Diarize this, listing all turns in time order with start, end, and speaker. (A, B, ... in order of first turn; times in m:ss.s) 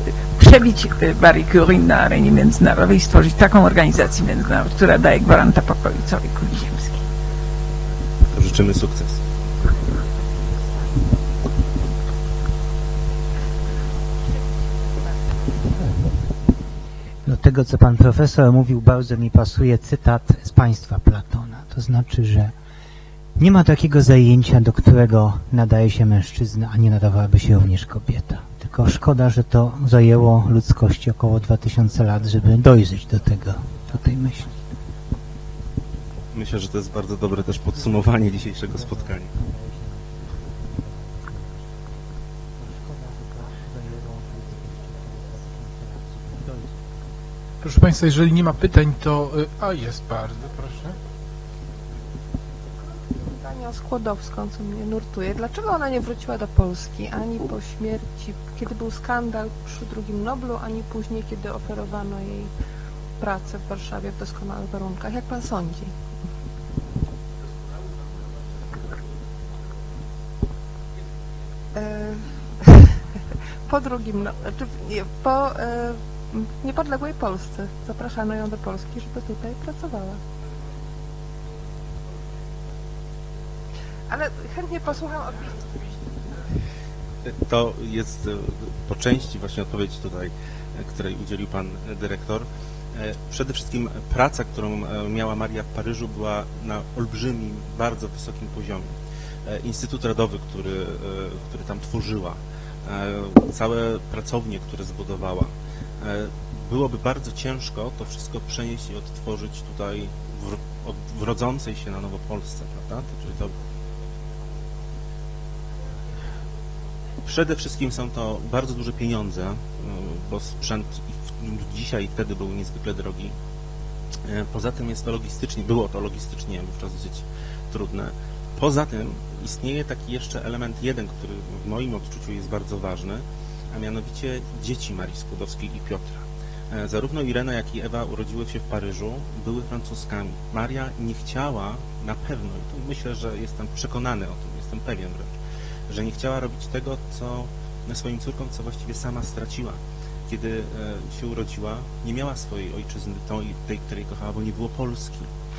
0:00.4-0:07.0 A
0:08.3-0:09.2 B
0:17.2-0:22.5 C
0:23.4-0:34.5 C
0:36.3-0:39.3 B
0:47.6-0:51.0 D
0:53.2-1:02.5 E
1:03.2-1:05.9 E
1:11.7-1:13.0 E
1:13.7-1:20.2 E
1:24.1-1:25.6 E
1:27.2-1:38.9 B
1:39.4-1:53.5 B
1:57.2-2:03.3 B
2:04.2-2:25.3 B
2:25.9-2:35.3 B